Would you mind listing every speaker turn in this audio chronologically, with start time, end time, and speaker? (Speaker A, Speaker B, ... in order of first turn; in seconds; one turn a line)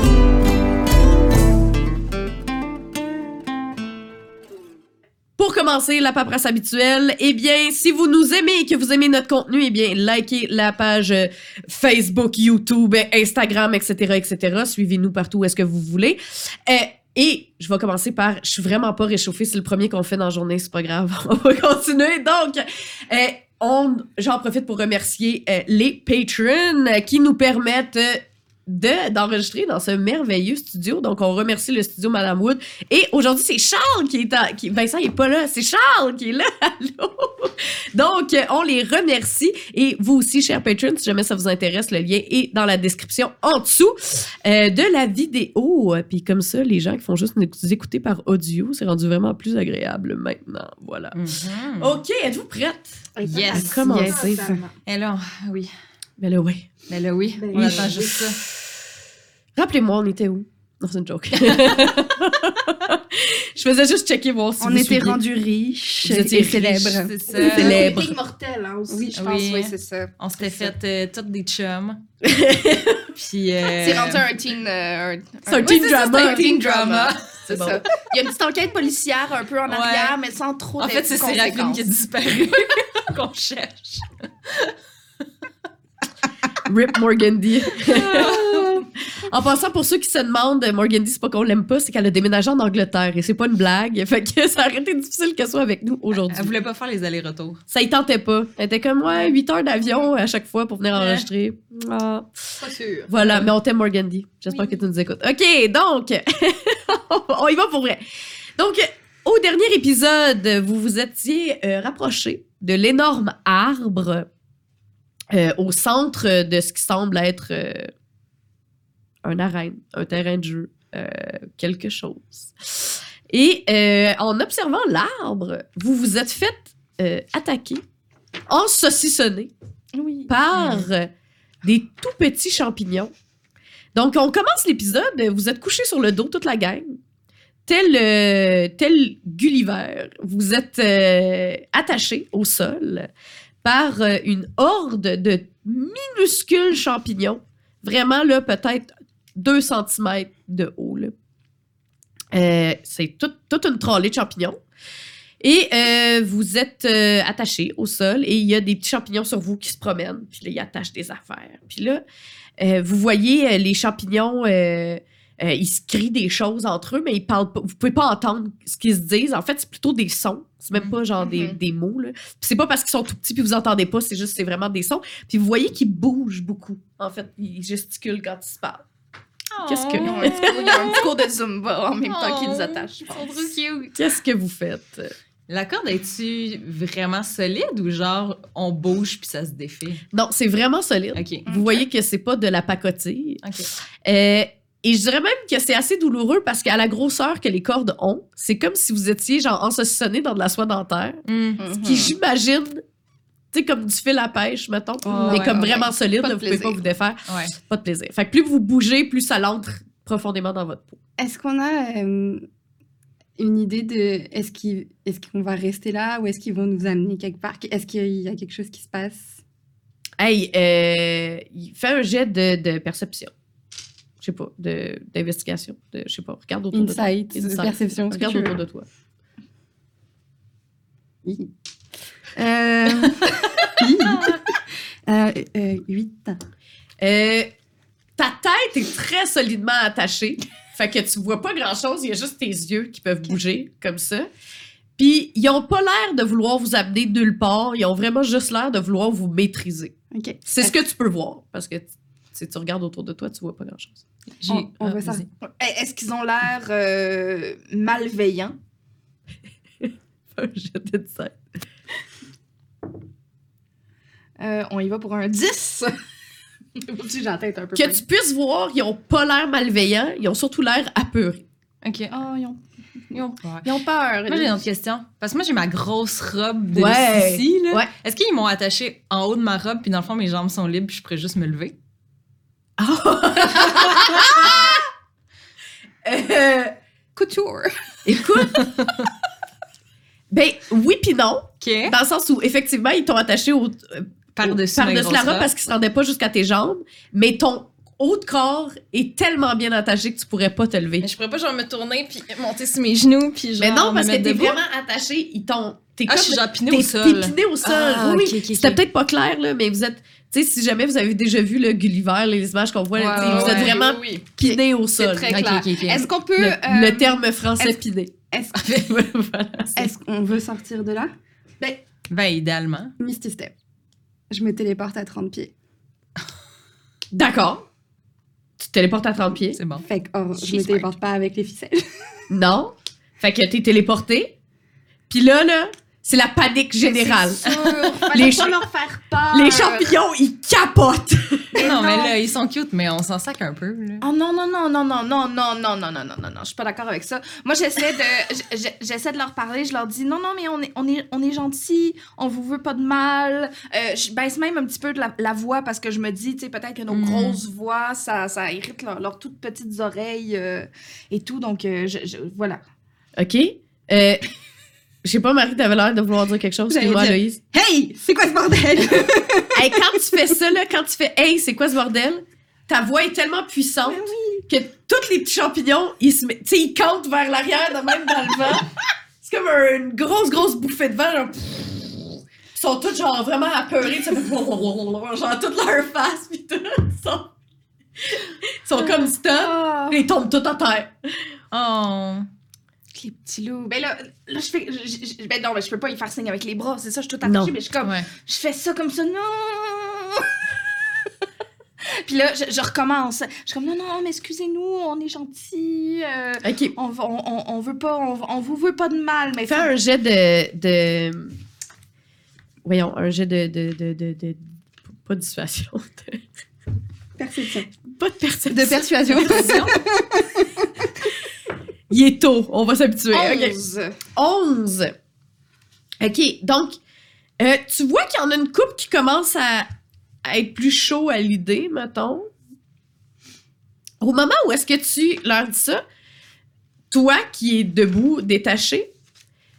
Speaker A: 5.4-51.2
Speaker B: 51.1-52.0
Speaker A: 51.8-54.4
Speaker C: 53.1-54.7
Speaker B: 53.2-53.8
Speaker D: 53.9-54.6
Speaker B: 54.9-55.7
Speaker A: 56.2-56.7
Speaker B: 56.9-58.4
Speaker C: 57.4-58.1
Speaker D: 57.5-57.9
Speaker A: 57.5-57.9
Speaker A: 59.5-65.2
Speaker D: 64.6-67.9
Speaker A: 66.0-68.1
Speaker C: 67.1-69.2
Speaker B: 67.3-67.9
Speaker D: 68.9-70.7
Speaker B: 69.1-72.0
Speaker A: 72.2-73.1
Speaker B: 73.1-74.3
Speaker C: 73.7-81.8
Speaker A: 75.5-76.6
Speaker B: 75.6-77.3
Speaker A: 77.5-77.8
Speaker B: 79.7-80.2
Speaker B: 80.8-84.7
Speaker A: 86.6-88.6
Speaker B: 87.8-88.8
Speaker A: 89.1-96.5
Speaker B: 96.1-97.6
Speaker A: 97.7-102.4
Speaker B: 100.9-101.2
Speaker C: 102.6-103.5
Speaker A: 103.1-108.0
Speaker A: 108.6-114.3
Speaker A: 115.3-117.9
Speaker A: 119.2-127.8
Speaker A: 128.5-129.5
Speaker C: 129.9-130.3
Speaker A: 130.3-131.1
Speaker B: 130.5-130.9
Speaker A: 131.6-133.1
Speaker A: 133.9-137.0
Speaker A: 137.7-143.1
Speaker A: 143.6-151.1
Speaker A: 152.3-154.6
Speaker A: 155.4-162.0
Speaker A: 162.6-178.8
Speaker C: 171.2-171.6
Speaker B: 179.5-181.1
Speaker A: 179.6-180.9
Speaker C: 180.0-183.5
Speaker B: 182.1-184.0
Speaker A: 183.9-185.1
Speaker B: 185.5-190.0
Speaker A: 190.1-193.4
Speaker B: 191.1-191.4
Speaker C: 191.5-191.8
Speaker B: 193.4-193.7
Speaker A: 194.0-202.8
Speaker B: 201.3-201.6
Speaker C: 201.6-202.1
Speaker A: 203.5-211.0
Speaker B: 205.1-205.6
Speaker C: 205.1-206.8
Speaker B: 207.2-207.5
Speaker D: 211.2-212.4
Speaker D: 213.4-219.4
Speaker A: 220.2-223.3
Speaker A: 224.2-228.8
Speaker D: 226.7-228.5
Speaker D: 231.2-231.5
Speaker D: 232.3-234.4
Speaker D: 235.1-236.4
Speaker A: 237.0-237.5
Speaker A: 238.2-244.3
Speaker A: 245.0-249.9
Speaker D: 250.1-250.7
Speaker A: 250.4-254.0
Speaker B: 254.4-255.3
Speaker D: 254.5-255.2
Speaker C: 255.4-258.6
Speaker A: 259.8-261.4
Speaker C: 264.4-265.9
Speaker C: 266.8-268.0
Speaker A: 267.8-271.4
Speaker B: 271.8-272.1
Speaker C: 272.1-272.6
Speaker B: 273.1-273.6
Speaker C: 273.6-274.6
Speaker B: 274.3-281.7
Speaker A: 276.7-277.9
Speaker A: 282.8-284.8
Speaker A: 286.0-286.7
Speaker C: 287.1-287.8
Speaker A: 288.0-288.7
Speaker B: 288.4-289.0
Speaker A: 290.3-301.1
Speaker B: 291.6-291.9
Speaker B: 294.4-295.5
Speaker B: 301.0-304.6
Speaker A: 303.6-315.3
Speaker B: 306.1-308.8
Speaker C: 312.9-314.3
Speaker B: 313.1-313.8
Speaker C: 315.0-317.0
Speaker B: 315.3-316.1
Speaker A: 316.4-319.9
Speaker D: 316.9-317.8
Speaker D: 318.3-318.6
Speaker D: 319.8-321.1
Speaker B: 322.1-322.9
Speaker D: 323.0-323.5
Speaker D: 324.3-325.5
Speaker A: 327.1-327.6
Speaker A: 328.6-329.6
Speaker B: 329.5-329.9
Speaker D: 329.8-331.9
Speaker B: 330.4-330.9
Speaker A: 332.3-334.3
Speaker A: 335.1-337.5
Speaker C: 336.8-339.9
Speaker B: 337.5-338.0
Speaker A: 338.1-338.6
Speaker A: 339.3-341.5
Speaker C: 341.5-342.1
Speaker B: 341.6-344.0
Speaker C: 344.0-362.6
Speaker B: 356.9-357.4
Speaker A: 363.2-364.2
Speaker A: 365.0-367.4
Speaker D: 366.7-370.3
Speaker A: 369.5-378.7
Speaker C: 373.9-374.4
Speaker A: 379.2-387.3
Speaker A: 388.1-390.9
Speaker C: 389.4-390.0
Speaker B: 391.5-392.3
Speaker C: 392.9-400.3
Speaker A: 397.2-397.5
Speaker B: 397.8-398.1
Speaker C: 401.8-409.7
Speaker A: 406.4-406.7
Speaker A: 409.4-411.4
Speaker A: 412.6-414.5
Speaker A: 415.0-416.2
Speaker D: 417.2-417.7
Speaker A: 417.8-419.2
Speaker D: 418.5-420.8
Speaker B: 419.1-419.8
Speaker A: 421.9-423.5
Speaker C: 423.1-423.9
Speaker A: 424.1-424.9
Speaker A: 426.0-426.8
Speaker A: 427.4-429.7
Speaker A: 430.2-432.3
Speaker A: 434.0-435.8
Speaker A: 436.9-438.9